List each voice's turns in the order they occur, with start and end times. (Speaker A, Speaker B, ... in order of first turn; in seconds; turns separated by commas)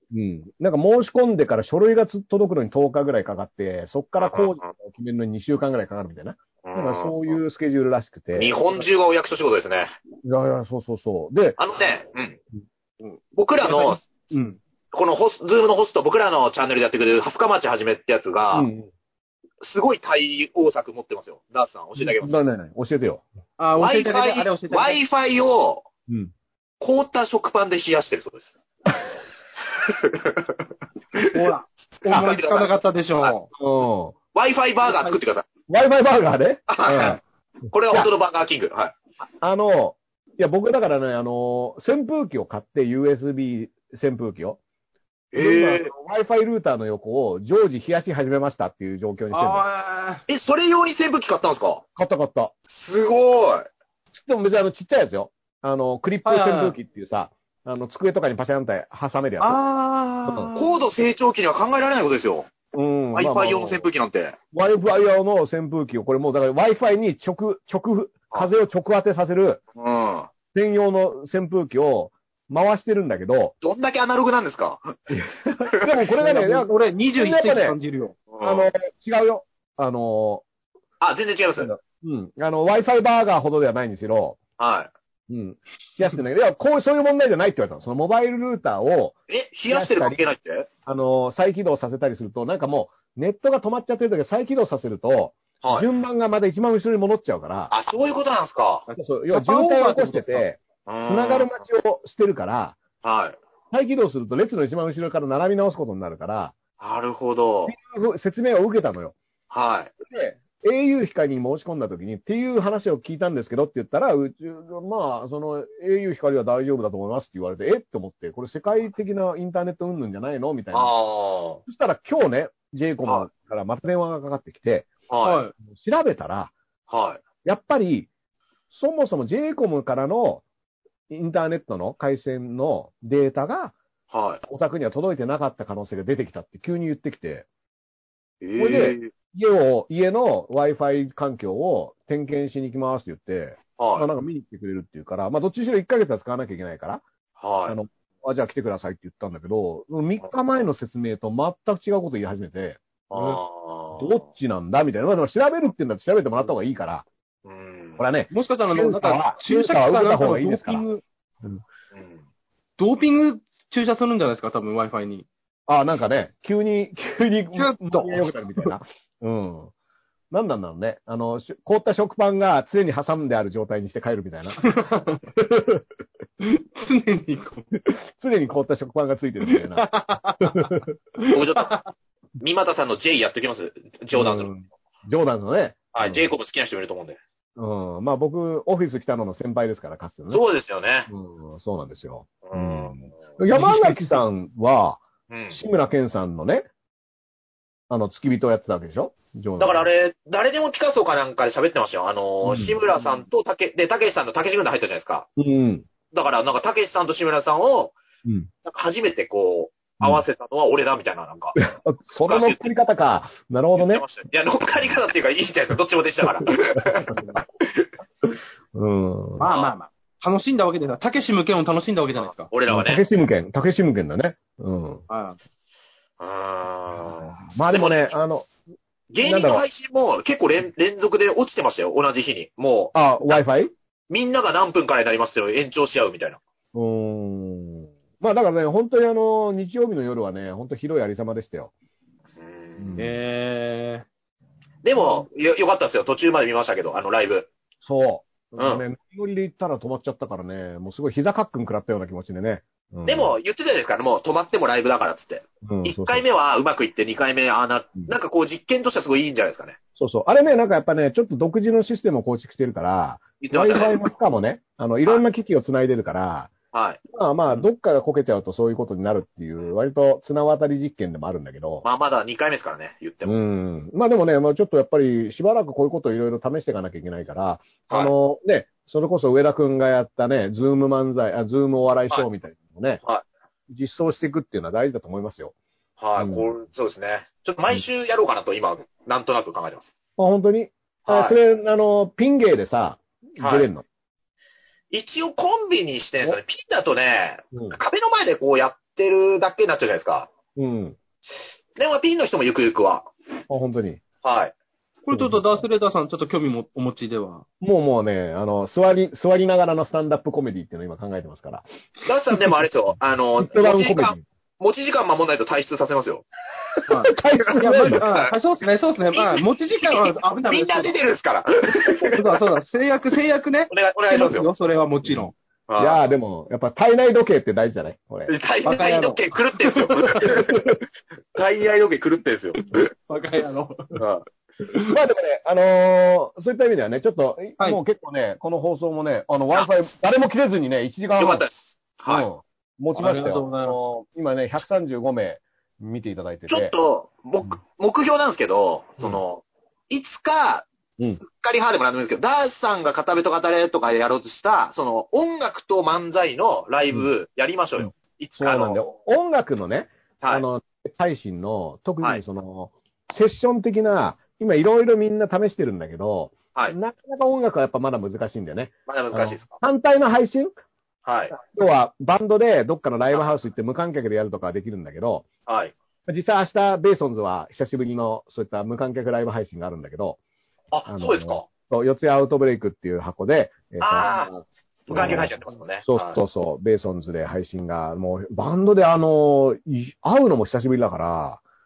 Speaker A: 0.1-8.6, Speaker B: 4.2-4.7, Speaker B: 6.6-7.3, Speaker B: 8.3-9.9, Speaker A: 10.2-11.6, Speaker B: 11.6-12.4, Speaker C: 13.0-14.6, Speaker B: 13.4-14.1, Speaker B: 14.9-18.7, Speaker A: 18.5-18.9, Speaker B: 19.6-22.3, Speaker A: 22.0-23.2, Speaker C: 23.6-25.0, Speaker B: 23.8-25.9, Speaker B: 26.8-28.5, Speaker B: 29.7-30.6, Speaker B: 31.2-31.5, Speaker C: 31.2-33.5, Speaker B: 32.1-33.3, Speaker A: 33.6-34.2, Speaker B: 34.3-35.5, Speaker C: 34.8-35.2, Speaker A: 35.7-37.2, Speaker B: 36.7-37.2, Speaker B: 37.7-39.0, Speaker A: 39.4-44.6, Speaker B: 45.3-45.9, Speaker A: 45.3-49.7, Speaker C: 49.3-50.2, Speaker B: 50.3-51.8, Speaker A: 52.0-52.5, Speaker B: 52.7-53.7, Speaker A: 54.1-59.6, Speaker C: 56.2-56.8, Speaker C: 59.4-60.9, Speaker A: 60.3-60.5, Speaker B: 60.6-62.5, Speaker A: 62.7-63.9, Speaker B: 63.1-64.4, Speaker A: 64.5-69.6, Speaker B: 69.8-70.3, Speaker A: 70.5-73.5, Speaker B: 73.6-75.0, Speaker A: 75.1-77.8, Speaker B: 75.7-75.9, Speaker C: 76.2-78.2, Speaker B: 78.3-78.7, Speaker A: 78.4-80.5, Speaker B: 81.0-81.7, Speaker A: 81.6-84.4, Speaker B: 84.6-84.9, Speaker A: 85.3-89.2, Speaker B: 89.3-90.7, Speaker A: 89.7-90.2, Speaker A: 90.9-97.7, Speaker B: 95.6-95.9, Speaker B: 97.7-98.9, Speaker C: 98.9-100.5, Speaker A: 99.0-102.8, Speaker B: 100.9-101.5, Speaker B: 103.0-103.4, Speaker A: 103.7-106.6, Speaker B: 106.8-107.7, Speaker A: 107.7-109.2, Speaker B: 109.5-109.9, Speaker A: 110.1-120.9, Speaker B: 120.7-121.6, Speaker A: 121.7-124.9, Speaker B: 125.1-125.4, Speaker C: 125.2-125.5, Speaker A: 125.6-126.5, Speaker B: 126.9-127.2, Speaker A: 127.4-128.1, Speaker A: 128.7-130.4, Speaker A: 131.1-133.8, Speaker B: 134.1-134.4, Speaker A: 134.4-137.5, Speaker B: 138.4-139.1, Speaker A: 138.6-147.0, Speaker B: 143.8-144.1, Speaker B: 147.4-147.8, Speaker A: 147.7-152.8, Speaker B: 153.1-154.2, Speaker A: 154.0-157.1, Speaker B: 157.4-158.0, Speaker A: 158.0-160.8, Speaker C: 158.3-161.0, Speaker B: 161.9-162.2, Speaker C: 162.8-165.3, Speaker A: 165.7-169.7, Speaker C: 167.6-168.7, Speaker A: 170.3-174.8, Speaker C: 174.6-175.3, Speaker A: 175.4-175.8, Speaker C: 176.4-177.7, Speaker A: 178.1-180.9, Speaker C: 179.4-181.9, Speaker B: 181.3-181.8, Speaker B: 182.4-184.5, Speaker A: 184.1-186.2, Speaker B: 185.9-187.2, Speaker A: 187.6-190.4, Speaker B: 190.3-191.1, Speaker A: 191.1-196.7, Speaker B: 192.4-193.1, Speaker C: 193.5-194.0, Speaker B: 195.3-195.6, Speaker A: 197.9-199.9, Speaker B: 199.6-205.3, Speaker A: 202.4-202.8, Speaker A: 205.4-205.9, Speaker B: 206.1-208.0, Speaker B: 208.7-211.6, Speaker A: 211.6-214.1, Speaker B: 212.2-212.6, Speaker B: 213.8-217.9, Speaker A: 216.5-217.4, Speaker A: 218.2-219.5, Speaker C: 219.4-222.5, Speaker B: 219.4-219.7, Speaker B: 222.2-223.0, Speaker A: 222.7-225.0, Speaker C: 225.1-225.4, Speaker B: 226.2-228.1, Speaker A: 227.2-228.5, Speaker B: 229.1-233.4, Speaker A: 229.2-229.6, Speaker A: 232.9-233.7, Speaker B: 234.1-236.4, Speaker A: 236.7-241.7, Speaker B: 242.4-243.0, Speaker A: 242.8-243.2, Speaker C: 243.0-244.1, Speaker B: 244.8-247.5, Speaker A: 247.8-253.4, Speaker B: 248.6-248.8, Speaker B: 253.1-259.8, Speaker A: 255.7-256.2, Speaker A: 260.0-266.5, Speaker B: 263.4-264.1, Speaker B: 266.7-267.0, Speaker A: 267.1-271.9, Speaker B: 271.8-273.4, Speaker A: 273.2-283.0, Speaker B: 277.9-278.1, Speaker A: 283.7-285.5, Speaker B: 286.0-289.9, Speaker A: 286.2-286.6, Speaker A: 290.2-293.8, Speaker B: 291.1-291.4, Speaker B: 293.4-293.7, Speaker B: 294.9-300.3, Speaker A: 297.5-297.8, Speaker A: 300.6-301.0, Speaker B: 301.8-303.1, Speaker A: 303.5-304.0, Speaker B: 304.2-304.5, Speaker C: 305.1-307.5, Speaker A: 305.1-305.6, Speaker A: 307.6-311.6, Speaker B: 312.1-316.3, Speaker A: 313.4-314.2, Speaker C: 316.9-321.0, Speaker A: 317.1-318.1, Speaker B: 317.5-318.3, Speaker B: 319.1-322.2, Speaker C: 322.1-325.3, Speaker B: 323.7-324.5, Speaker B: 325.7-326.0, Speaker A: 325.8-328.3, Speaker B: 328.3-330.7, Speaker C: 328.6-330.3, Speaker A: 330.2-330.8, Speaker B: 331.4-332.9, Speaker C: 333.1-334.0, Speaker B: 334.0-334.2, Speaker A: 334.9-341.5, Speaker B: 341.2-342.3, Speaker A: 342.1-346.7, Speaker C: 342.9-343.9, Speaker B: 346.5-350.7, Speaker B: 351.2-358.9, Speaker A: 357.8-370.5, Speaker B: 368.9-369.6, Speaker B: 371.1-371.4, Speaker A: 371.3-375.3, Speaker B: 375.5-375.7, Speaker A: 376.1-380.2, Speaker B: 380.7-381.5, Speaker A: 380.9-385.3, Speaker B: 383.8-384.3, Speaker B: 384.9-386.2, Speaker A: 385.9-391.4